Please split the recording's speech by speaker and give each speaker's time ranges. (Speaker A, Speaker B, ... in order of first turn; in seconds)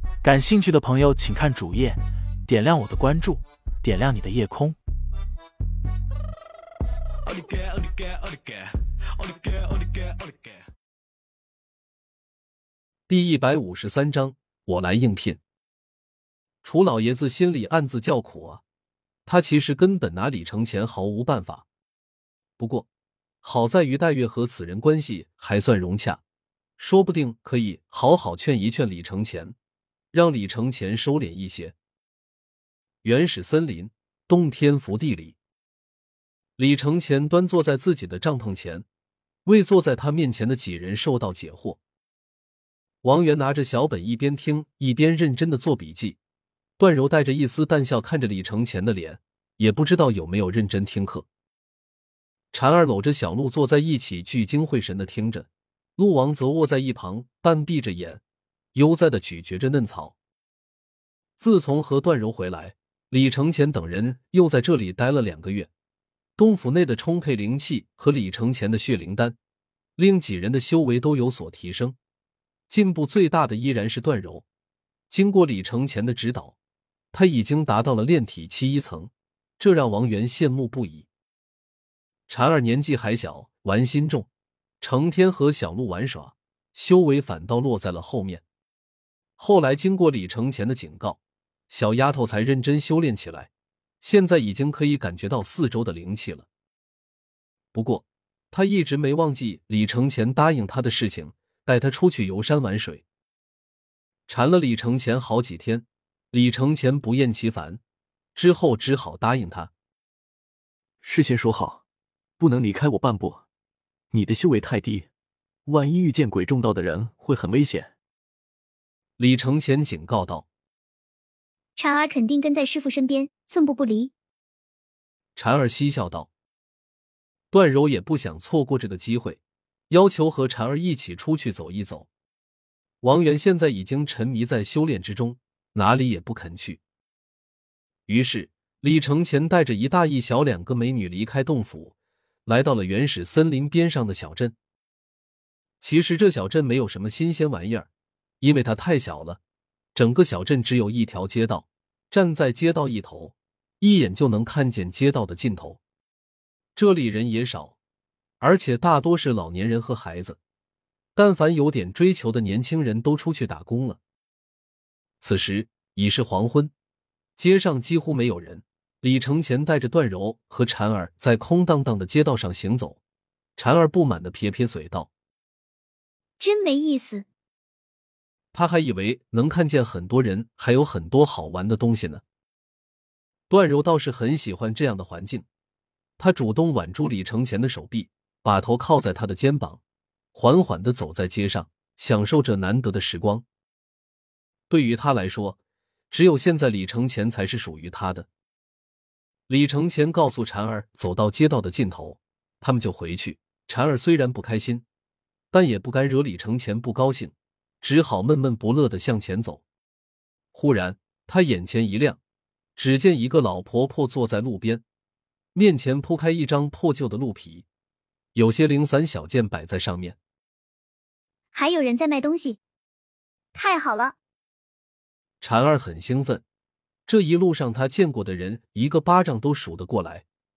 Speaker A: 0.2-4.8
Speaker B: 13.1-15.4, 16.6-18.6, 19.2-21.6, 22.6-22.9, 23.4-26.2, 26.8-29.5, 30.1-31.7, 33.0-35.4, 36.6-38.8, 39.5-41.8, 43.0-46.2, 46.8-51.2, 52.5-58.2, 58.7-60.1, 61.4-65.7, 66.4-69.4, 70.0-72.0, 72.7-74.4, 75.1-76.5, 77.1-81.1, 82.3-84.3, 84.8-88.4, 89.4-91.2, 91.7-93.5, 94.0-96.5, 97.7-103.0, 104.3-107.8, 108.3-109.7, 119.2-120.5, 125.3-126.3, 127.5-129.4, 129.9-132.1, 133.0-136.8, 138.1-141.9, 142.4-144.5, 145.8-147.9, 148.4-149.4, 149.9-155.8, 156.8-157.8, 158.4-160.4, 161.2-164.0, 165.2-166.7, 167.4-173.0, 173.6-175.1, 178.5-182.2, 183.5-185.4, 186.2-189.8, 190.3-193.4, 194.7-195.6, 196.1-198.3, 199.5-204.8, 205.5-209.6, 210.5-212.2, 212.8-214.8, 215.5-217.6, 218.3-220.2, 225.4-226.4, 227.1-230.2
Speaker C: 111.0-111.8, 112.4-113.4, 114.1-115.1, 115.7-117.9
Speaker D: 121.8-124.1, 176.4-177.2, 221.5-222.6, 223.5-224.1